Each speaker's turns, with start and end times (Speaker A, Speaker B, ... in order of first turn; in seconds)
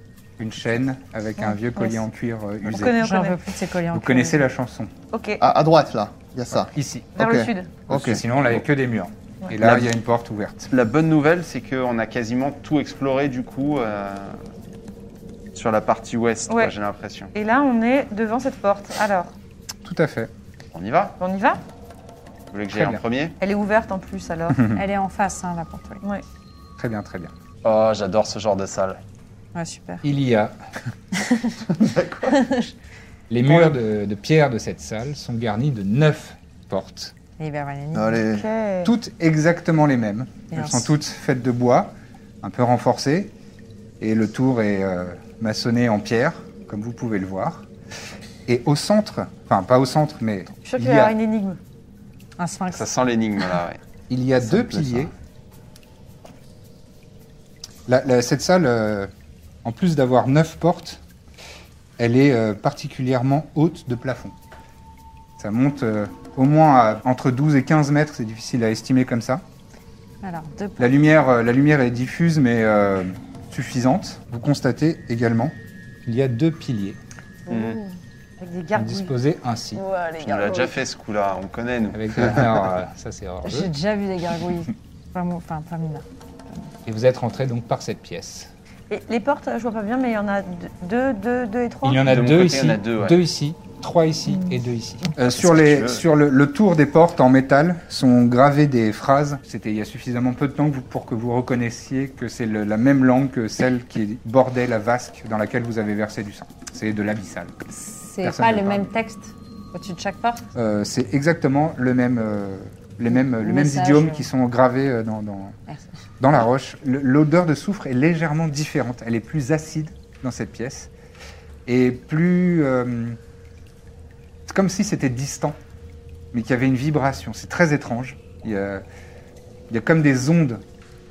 Speaker A: 0.4-3.0, 3.9-4.9, 6.5-7.2, 7.9-10.7, 19.8-20.3, 22.7-23.0, 24.5-24.8, 26.8-27.3, 30.0-30.6, 33.3-37.1, 38.8-43.3, 44.0-47.7, 48.5-51.1, 54.1-55.1, 57.9-59.1, 59.6-61.0, 62.0-64.3, 65.4-69.4, 70.8-75.5, 76.0-77.0, 78.7-79.8, 81.9-83.7, 86.8-88.5, 91.8-107.5, 108.2-108.9, 110.5-115.5, 116.2-120.9, 121.7-123.2, 124.5-125.6, 126.3-128.8, 129.7-130.6
Speaker B: 1.4-2.0, 2.7-3.4, 5.1-5.4, 7.2-7.8, 16.5-16.7, 17.3-19.3, 21.2-21.6, 23.4-24.6, 38.3-38.9, 50.6-51.6, 77.5-79.1, 88.9-92.0
Speaker C: 3.0-4.5, 24.7-26.0, 29.5-30.0, 37.4-38.2, 40.5-40.9, 52.4-52.9, 70.2-71.0, 79.7-80.8, 83.4-86.0, 107.7-110.4, 113.1-114.3
Speaker D: 5.4-8.2, 32.0-32.3, 37.9-38.5, 54.4-55.1
Speaker E: 9.6-9.9, 10.7-14.4, 15.5-17.3, 20.7-21.2, 22.5-23.3, 27.6-29.0, 52.7-53.8, 77.5-77.8, 80.2-82.7, 92.0-93.2, 95.3-96.0